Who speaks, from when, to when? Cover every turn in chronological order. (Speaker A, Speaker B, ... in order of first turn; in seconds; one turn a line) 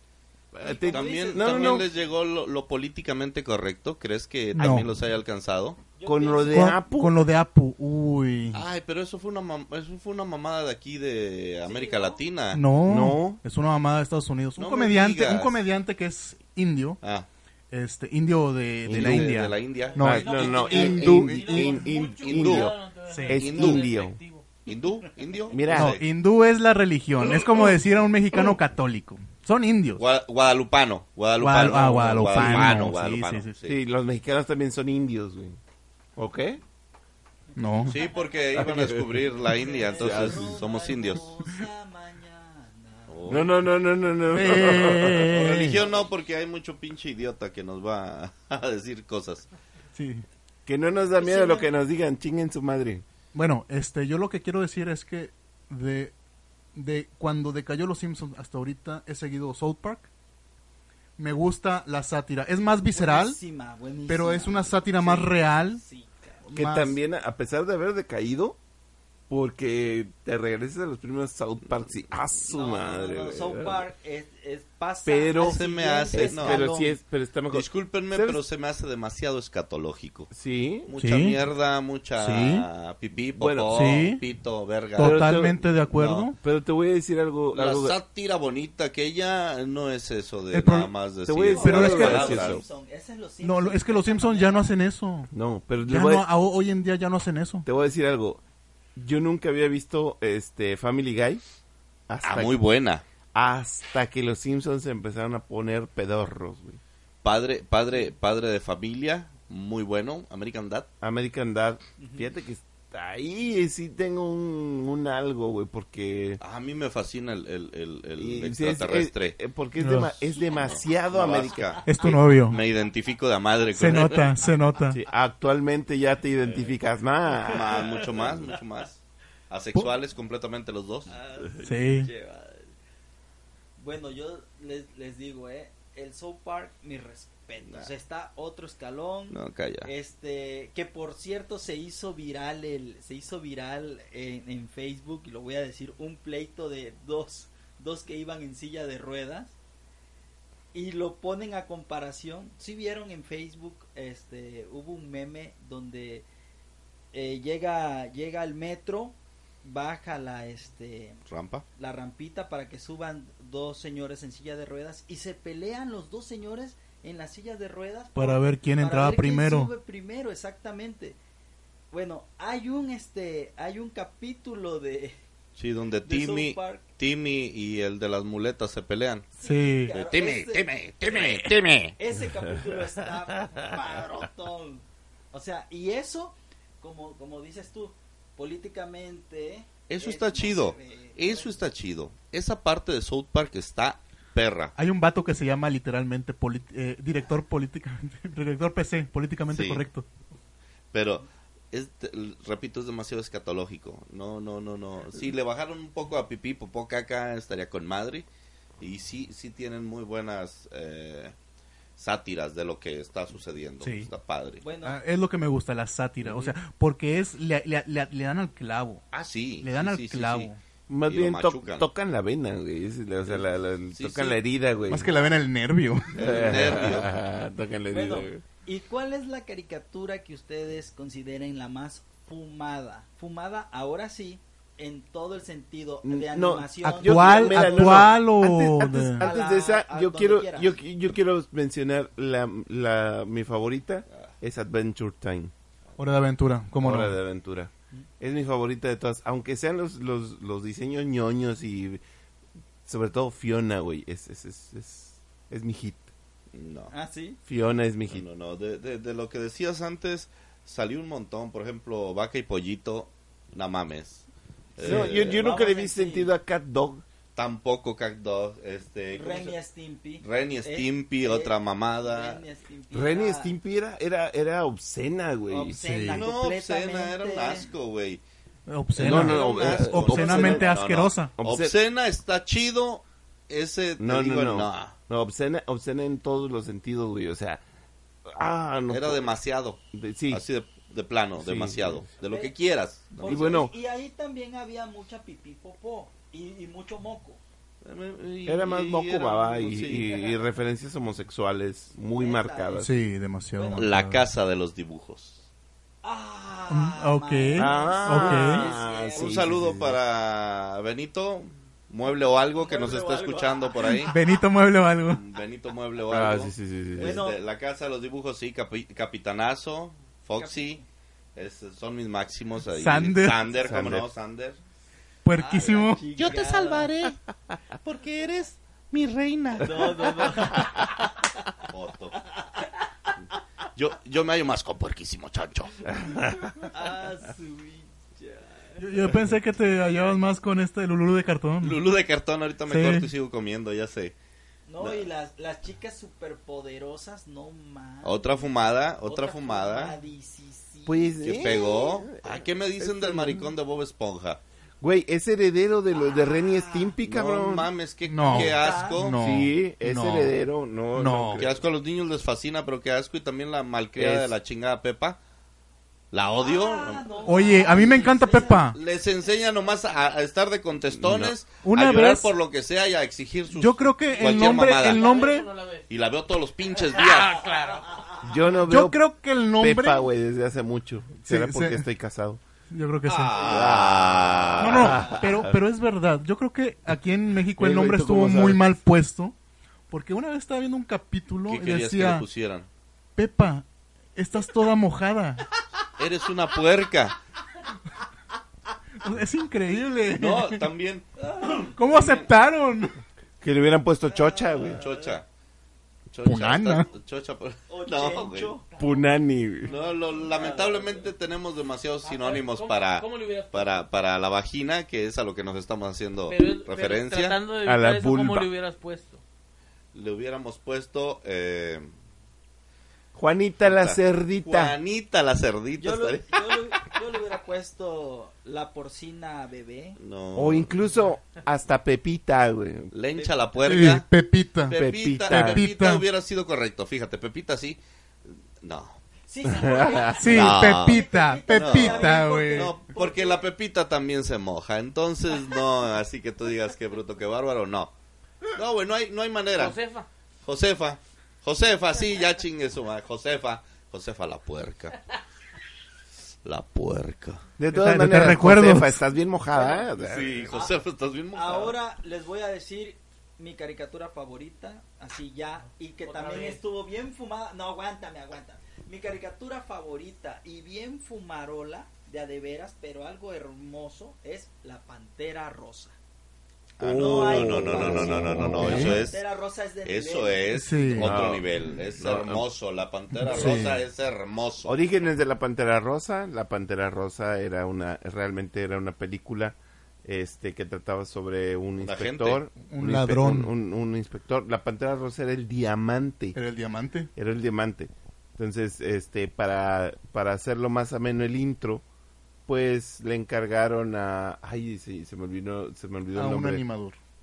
Speaker A: 0.5-1.9
Speaker B: 0.6-2.1
Speaker C: 0.9-5.8
Speaker D: 4.6-4.9
Speaker B: 6.0-6.8
Speaker A: 6.1-7.1
Speaker D: 6.5-8.7
Speaker C: 8.5-12.6
Speaker B: 11.6-12.2
Speaker D: 12.5-17.0
Speaker A: 12.8-13.4
Speaker C: 14.6-15.6
Speaker C: 17.0-17.3
Speaker D: 17.7-21.9
Speaker A: 18.9-24.2
Speaker C: 18.9-20.9
Speaker E: 19.9-24.4
Speaker C: 22.1-23.9
Speaker D: 23.1-23.4
Speaker C: 24.6-26.0
Speaker A: 25.5-26.0
Speaker D: 25.7-30.0
Speaker C: 30.0-33.8
Speaker D: 31.4-33.5
Speaker A: 32.4-32.8
Speaker A: 33.6-35.6
Speaker A: 36.1-36.6
Speaker D: 37.6-37.9
Speaker B: 37.8-38.7
Speaker C: 37.9-41.4
Speaker A: 38.6-39.3
Speaker B: 39.4-43.5
Speaker A: 39.9-40.6
Speaker C: 43.1-43.5
Speaker A: 43.3-45.4
Speaker D: 44.3-45.8
Speaker C: 45.2-49.5
Speaker B: 45.8-46.1
Speaker D: 49.9-50.2
Speaker A: 50.6-53.0
Speaker B: 51.2-51.8
Speaker D: 53.3-56.1
Speaker D: 56.8-60.1
Speaker D: 61.2-63.4
Speaker B: 62.9-66.4
Speaker D: 64.1-65.8
Speaker D: 66.4-67.0
Speaker A: 66.5-68.6
Speaker A: 69.3-73.9
Speaker B: 72.4-77.0
Speaker A: 75.1-78.4
Speaker C: 75.4-76.6
Speaker C: 77.5-80.3
Speaker A: 80.3-80.9
Speaker C: 80.9-85.3
Speaker D: 81.0-81.4
Speaker D: 82.2-82.7
Speaker A: 83.4-83.9
Speaker D: 83.7-84.2
Speaker D: 85.0-86.4
Speaker A: 85.0-85.8
Speaker C: 85.9-86.3
Speaker A: 86.3-88.0
Speaker C: 87.5-92.6
Speaker D: 90.5-90.9
Speaker A: 91.3-92.6
Speaker B: 91.4-94.7
Speaker D: 91.5-92.4
Speaker D: 93.4-95.3
Speaker A: 95.3-96.3
Speaker D: 95.9-97.7
Speaker A: 97.6-98.4
Speaker A: 99.0-101.4
Speaker A: 102.1-102.6
Speaker C: 102.2-103.0
Speaker A: 103.3-106.8
Speaker C: 107.2-110.9
Speaker A: 111.0-116.4
Speaker B: 112.0-112.3
Speaker C: 116.4-119.4
Speaker A: 118.2-121.9
Speaker D: 119.8-120.3
Speaker C: 120.5-124.4
Speaker D: 121.8-122.6
Speaker D: 123.7-125.0
Speaker A: 124.9-127.9
Speaker C: 127.5-131.1
Speaker B: 127.8-128.5
Speaker B: 131.1-132.7
Speaker D: 131.6-132.1
Speaker B: 133.8-149.6
Speaker C: 139.3-139.9
Speaker B: 150.7-156.3
Speaker B: 157.1-161.2
Speaker C: 161.3-161.6
Speaker B: 161.8-171.2
Speaker D: 168.2-169.7
Speaker B: 171.9-175.2
Speaker C: 175.6-179.3
Speaker B: 176.1-176.9
Speaker B: 179.4-181.3
Speaker D: 179.4-179.9
Speaker C: 179.9-181.9
Speaker B: 182.0-191.5
Speaker C: 189.9-194.8
Speaker D: 194.8-200.1
Speaker C: 199.5-199.8
Speaker C: 200.9-208.3
Speaker C: 208.8-211.3
Speaker C: 212.0-214.6
Speaker D: 213.8-214.1
Speaker B: 214.6-215.0
Speaker D: 214.8-219.1
Speaker C: 216.2-216.5
Speaker C: 219.1-220.5
Speaker D: 219.6-220.6
Speaker A: 220.9-225.1
Speaker C: 221.1-221.9
Speaker C: 223.3-224.4
Speaker D: 224.9-226.6
Speaker C: 226.2-227.1
Speaker A: 226.2-228.4
Speaker B: 227.9-238.1
Speaker A: 236.0-245.5
Speaker D: 236.8-239.3
Speaker B: 239.2-240.8
Speaker D: 246.0-247.2
Speaker A: 246.8-252.0
Speaker A: 252.9-256.1
Speaker C: 256.5-256.9
Speaker B: 256.9-257.4
Speaker A: 257.4-258.3
Speaker C: 258.1-264.2
Speaker C: 264.8-265.4
Speaker A: 264.8-267.0
Speaker B: 264.8-266.4
Speaker C: 267.4-269.6
Speaker B: 269.1-273.6
Speaker C: 270.2-272.4
Speaker A: 272.9-275.8
Speaker B: 275.5-277.7
Speaker D: 275.8-276.3
Speaker C: 276.1-278.2
Speaker D: 278.7-281.4
Speaker C: 278.9-284.9
Speaker A: 279.0-280.8
Speaker A: 281.4-281.8
Speaker A: 284.0-287.6
Speaker A: 288.3-289.3
Speaker C: 288.9-293.6
Speaker A: 289.9-290.4
Speaker A: 291.4-292.1
Speaker B: 292.2-292.5
Speaker B: 293.1-297.4
Speaker A: 293.2-293.7
Speaker C: 297.8-300.3
Speaker A: 298.4-302.9
Speaker B: 302.1-302.9
Speaker D: 302.8-304.3
Speaker B: 303.6-303.9
Speaker C: 303.8-305.4
Speaker B: 306.0-309.6
Speaker D: 306.7-308.6
Speaker A: 307.6-310.0
Speaker C: 309.1-314.2
Speaker B: 312.6-314.2
Speaker D: 314.0-315.2
Speaker C: 315.1-320.8
Speaker A: 316.1-317.2
Speaker B: 317.0-317.4
Speaker B: 320.4-320.9
Speaker C: 321.4-324.6
Speaker D: 322.7-323.6
Speaker A: 323.6-324.1
Speaker D: 325.2-326.1
Speaker B: 325.3-326.9
Speaker C: 326.1-330.9
Speaker B: 329.6-330.9
Speaker C: 331.7-332.2
Speaker B: 332.2-332.7
Speaker C: 333.8-335.9
Speaker A: 336.0-336.5
Speaker B: 336.6-339.1
Speaker D: 338.8-341.9
Speaker C: 341.6-344.1
Speaker D: 342.6-343.1
Speaker B: 344.7-351.9
Speaker C: 348.0-350.0
Speaker A: 350.9-353.6
Speaker C: 351.2-354.4
Speaker A: 354.8-357.7
Speaker B: 355.9-357.0
Speaker C: 357.1-359.2
Speaker D: 358.1-360.4
Speaker B: 358.3-359.0
Speaker A: 359.2-361.6
Speaker D: 360.9-361.4
Speaker C: 361.4-365.2
Speaker A: 363.9-364.4
Speaker C: 366.1-367.2
Speaker B: 366.4-368.7
Speaker D: 367.2-368.8
Speaker C: 368.7-375.2
Speaker A: 370.9-371.4
Speaker D: 371.6-372.3
Speaker D: 373.5-375.5
Speaker E: 374.1-375.9
Speaker C: 375.9-377.4
Speaker E: 376.8-378.1
Speaker A: 378.2-379.0
Speaker D: 378.7-380.1
Speaker A: 379.6-382.4
Speaker D: 381.2-381.9
Speaker D: 382.7-383.6
Speaker C: 383.1-385.2
Speaker A: 383.4-385.6
Speaker D: 384.6-389.4
Speaker A: 387.6-388.7
Speaker D: 389.9-392.3
Speaker C: 391.5-392.7
Speaker D: 393.1-393.6
Speaker D: 394.1-395.4
Speaker C: 396.0-397.1
Speaker D: 399.0-400.7
Speaker C: 400.1-402.3
Speaker B: 401.4-401.7
Speaker D: 401.8-402.9
Speaker A: 403.4-404.8
Speaker B: 404.1-405.2
Speaker C: 404.8-405.3
Speaker C: 406.1-408.5
Speaker D: 406.2-406.9
Speaker B: 407.7-408.6
Speaker A: 408.8-409.7
Speaker C: 409.7-417.4
Speaker B: 410.3-411.1
Speaker E: 412.0-413.9
Speaker E: 416.3-419.2
Speaker A: 417.6-418.5
Speaker C: 419.9-421.9
Speaker A: 423.1-424.8
Speaker C: 423.6-426.5
Speaker B: 425.8-430.0
Speaker C: 430.0-430.8
Speaker A: 430.4-432.9
Speaker C: 432.9-434.1
Speaker B: 433.1-433.9
Speaker D: 433.6-436.1
Speaker C: 434.7-437.8
Speaker A: 434.7-435.7
Speaker C: 438.6-439.0
Speaker B: 439.3-443.5
Speaker A: 439.5-440.4
Speaker D: 440.2-442.8
Speaker C: 440.2-447.9
Speaker C: 448.5-449.8
Speaker E: 449.6-450.1
Speaker C: 450.4-455.0
Speaker C: 456.4-457.4
Speaker A: 457.6-460.5
Speaker D: 457.7-459.0
Speaker B: 459.5-459.9
Speaker C: 459.9-461.8
Speaker B: 460.4-460.7
Speaker B: 461.3-475.9
Speaker E: 466.1-466.6
Speaker A: 476.8-479.0
Speaker C: 476.8-479.2
Speaker B: 476.9-480.5
Speaker D: 478.4-479.0
Speaker C: 479.8-484.8
Speaker D: 480.5-481.3
Speaker A: 480.9-482.5
Speaker D: 483.2-483.8
Speaker B: 483.3-483.7
Speaker A: 484.6-496.4
Speaker C: 491.8-492.5
Speaker D: 492.6-493.5
Speaker D: 496.4-497.1
Speaker A: 497.1-501.8
Speaker A: 502.5-506.6
Speaker D: 506.1-507.0